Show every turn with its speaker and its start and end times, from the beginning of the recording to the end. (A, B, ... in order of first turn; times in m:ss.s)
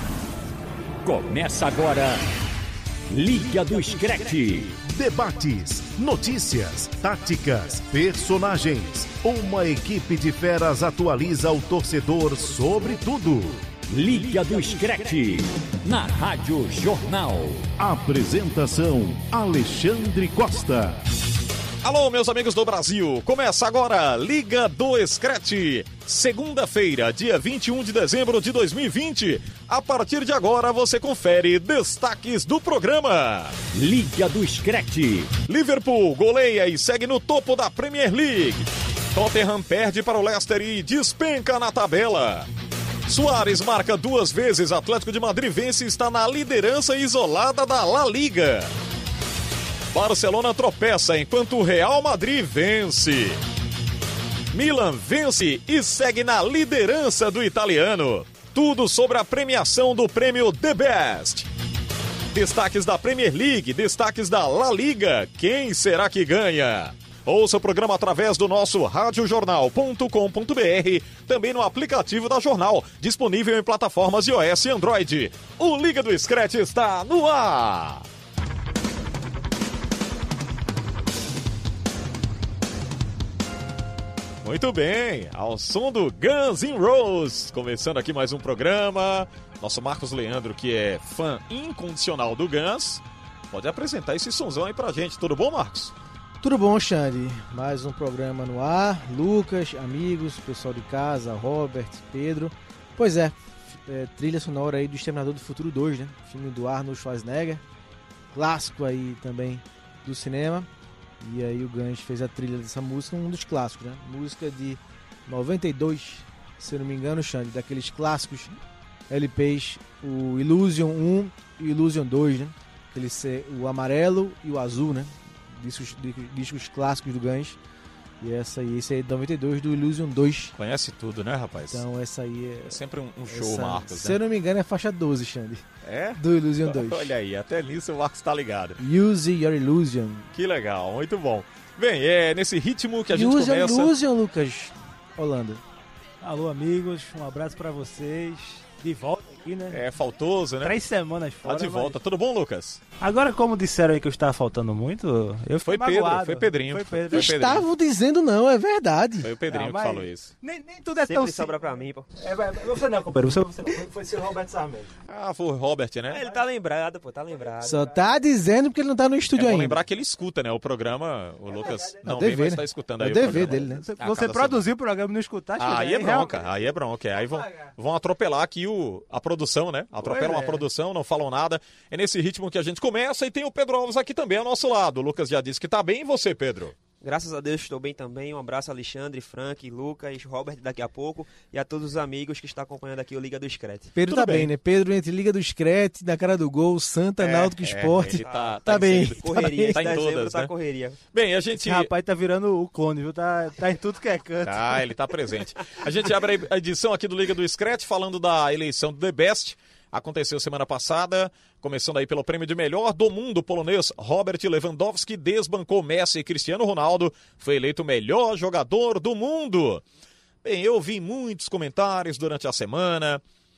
0:01.0-0:02.2 A
0:03.1-0:04.8 A
0:04.8-0:13.6 B
0:13.9-0:17.7 A
0:17.8-0:21.0 B
0:21.8-0:33.6 C
0:33.7-0:35.4 A
0:35.4-0:42.5 C
0:43.1-0:48.7 C
0:49.9-0:53.4 C
0:54.5-1:01.5 C
1:02.3-1:18.0 C
1:24.4-1:35.9 C
1:36.4-1:47.6 D
1:48.3-1:50.7 D
1:51.2-1:58.6 D
1:59.1-2:07.6 D
2:08.2-2:10.5 D
2:10.6-2:11.8 C
2:11.7-2:15.6 D
2:12.6-2:14.2 C
2:15.8-2:18.8 C
2:16.2-2:17.1 D
2:18.8-2:20.3 D
2:20.3-2:23.9 C
2:23.1-2:25.6 D
2:26.2-2:29.8 E
2:29.7-2:30.8 C
2:30.6-2:32.0 E
2:31.4-2:32.8 C
2:33.0-2:37.3 E
2:35.6-2:37.6 C
2:37.1-2:39.3 D
2:39.2-2:40.3 C
2:39.5-2:41.6 E
2:41.0-2:42.1 F
2:42.2-2:44.9 E
2:45.1-2:46.2 C
2:46.1-2:47.9 F
2:47.6-2:49.8 D
2:49.3-2:54.6 C
2:51.5-2:52.0 E
2:52.0-2:53.8 D
2:53.2-2:56.4 E
2:55.6-3:06.7 C
2:57.4-2:57.7 E
3:00.0-3:00.6 E
3:07.0-3:13.9 F
3:13.9-3:20.0 D
3:14.0-3:14.5 C
3:17.2-3:20.5 C
3:18.2-3:21.0 F
3:21.1-3:21.9 C
3:21.5-3:24.8 E
3:24.4-3:39.8 C
3:40.4-3:43.2 C